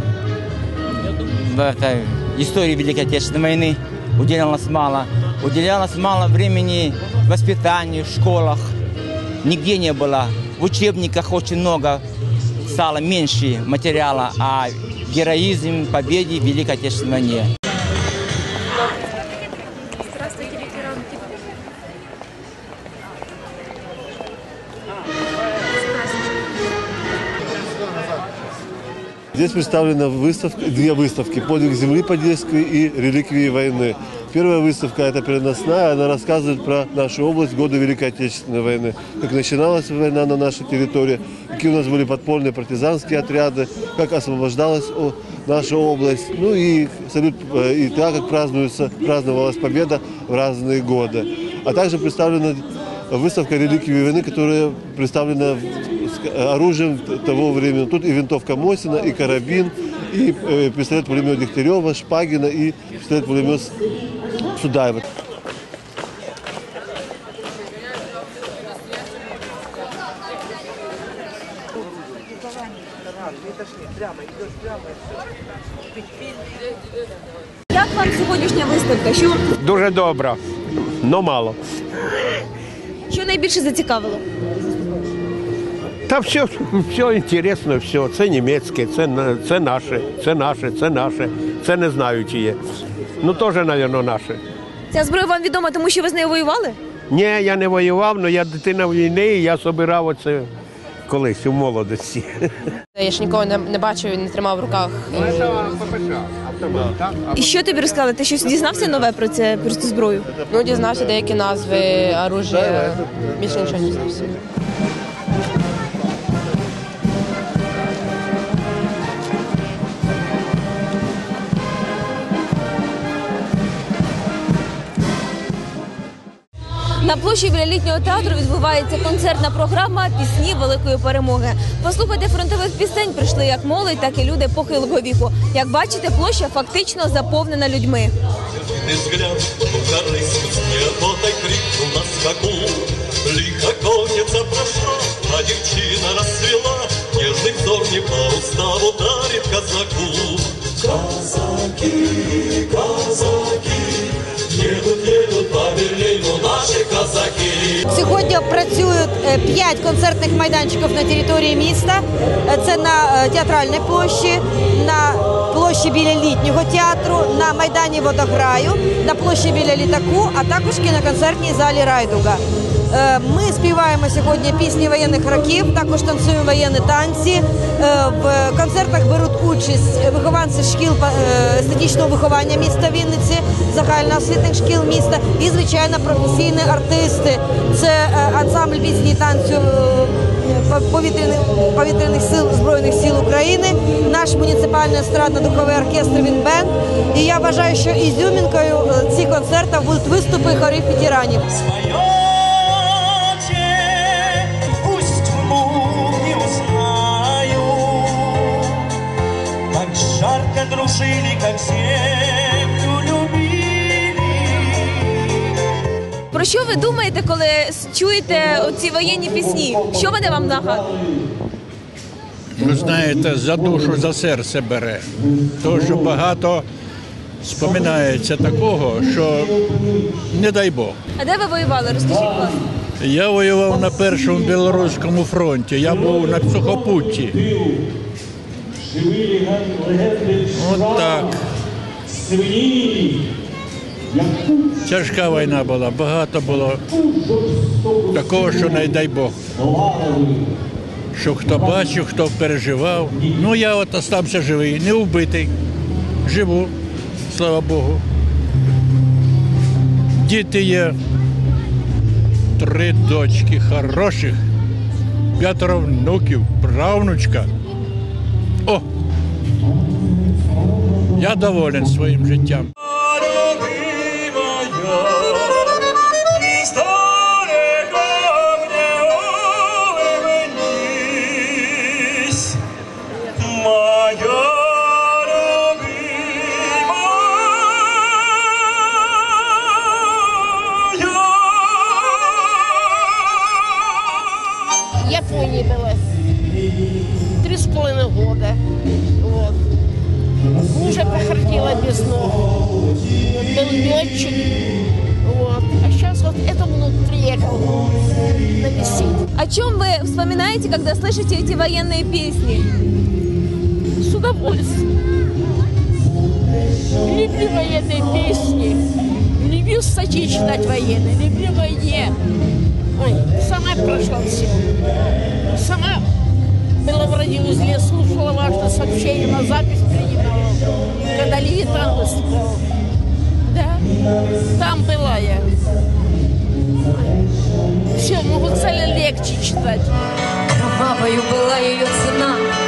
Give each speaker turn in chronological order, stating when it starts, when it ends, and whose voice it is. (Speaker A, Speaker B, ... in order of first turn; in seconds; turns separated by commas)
Speaker A: 1.3-8.7, Speaker A: 9.4-12.0, Speaker A: 12.7-17.5, Speaker B: 29.4-63.8, Speaker B: 64.5-65.0, Speaker C: 77.7-79.4, Speaker D: 79.5-80.4, Speaker D: 81.0-81.6, Speaker C: 83.1-84.2, Speaker D: 86.1-92.6, Speaker D: 93.2-94.4, Speaker C: 94.9-96.8, Speaker D: 97.1-100.5, Speaker D: 101.1-102.4, Speaker E: 103.0-105.4, Speaker C: 107.3-110.3, Speaker E: 110.5-114.4, Speaker C: 127.0-138.1, Speaker F: 138.6-157.8, Speaker G: 157.9-201.4, Speaker D: 201.5-208.8, Speaker D: 209.7-215.1, Speaker C: 216.3-220.9, Speaker H: 222.6-225.1, Speaker H: 225.6-226.6, Speaker H: 227.4-229.6, Speaker H: 230.3-231.0, Speaker C: 231.2-232.6, Speaker H: 233.0-237.4, Speaker H: 240.5-241.4, Speaker H: 244.8-246.8, Speaker H: 248.1-249.4, Speaker H: 251.2-255.5, Speaker H: 256.2-256.7, Speaker H: 257.3-258.0, Speaker H: 260.2-260.9, Speaker H: 262.6-264.4, Speaker H: 265.4-267.5, Speaker H: 271.2-272.7, Speaker D: 286.6-286.9, Speaker D: 290.9-292.3, Speaker I: 295.0-296.0, Speaker I: 297.4-298.6, Speaker I: 299.2-299.6, Speaker I: 300.7-302.3, Speaker I: 303.4-304.5, Speaker I: 305.2-307.9, Speaker I: 308.6-309.2, Speaker C: 309.4-312.7, Speaker I: 314.0-314.8, Speaker I: 317.1-318.8, Speaker I: 319.4-322.1, Speaker I: 323.0-324.7, Speaker I: 325.5-326.0, Speaker I: 326.8-332.6, Speaker I: 333.5-333.8, Speaker I: 334.6-335.5, Speaker I: 338.0-339.9, Speaker J: 340.5-342.5